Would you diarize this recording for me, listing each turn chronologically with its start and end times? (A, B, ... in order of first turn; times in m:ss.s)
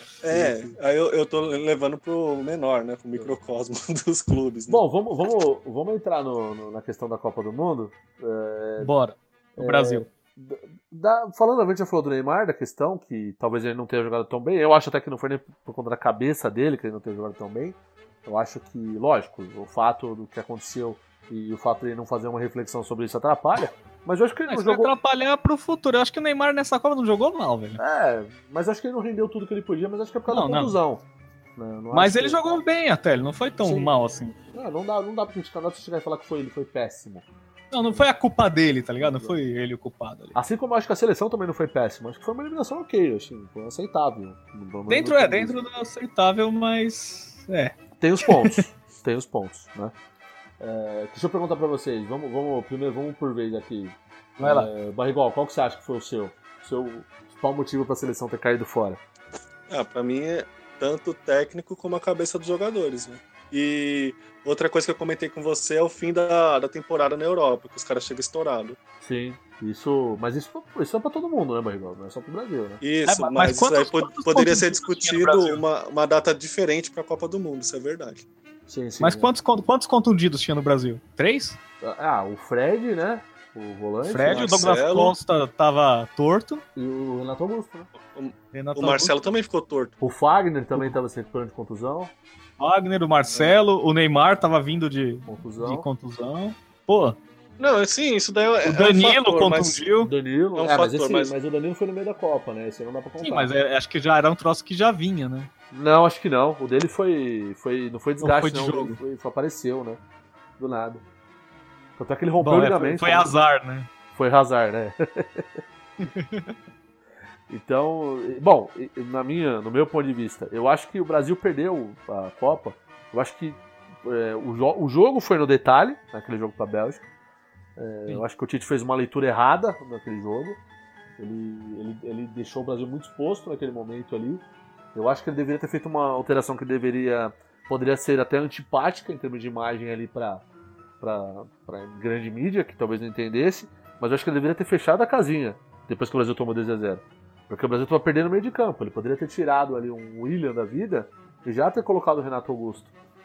0:00.2-0:04.8 A
0:00.3-0:00.8 B
0:04.7-0:08.9 B
0:08.8-0:10.1 C
0:09.6-0:24.9 B
0:24.5-0:27.8 C
0:27.8-0:31.0 B
0:30.3-0:30.8 C
0:31.6-0:32.4 B
0:31.9-0:34.4 C
0:33.6-0:33.9 B
0:34.5-0:37.3 B
0:37.7-0:40.4 C
0:39.0-0:39.4 B
0:40.4-0:45.6 B
0:44.9-0:48.6 C
0:48.0-0:49.9 B
0:50.6-0:59.0 B
0:54.4-0:54.7 C
0:59.7-1:08.8 A
1:09.0-1:12.8 B
1:12.8-1:18.2 A
1:13.1-1:15.6 C
1:18.7-1:19.3 B
1:19.0-1:21.6 C
1:21.8-1:24.7 B
1:24.1-1:26.6 C
1:24.3-1:25.2 A
1:26.8-1:27.9 B
1:28.0-1:30.0 A
1:28.5-1:29.1 C
1:30.0-1:32.1 B
1:32.6-1:37.2 C
1:35.3-1:35.9 B
1:37.6-1:39.8 A
1:38.6-1:40.1 C
1:40.0-1:43.5 B
1:40.6-1:41.3 A
1:43.2-1:45.5 C
1:45.7-1:50.0 B
1:48.2-1:49.0 C
1:50.6-1:51.0 B
1:52.0-1:53.3 B
1:52.4-1:53.9 C
1:54.1-1:55.6 B
1:56.0-1:56.6 C
1:57.5-2:07.1 B
2:07.8-2:10.6 B
2:11.2-2:20.4 B
2:21.0-2:32.9 B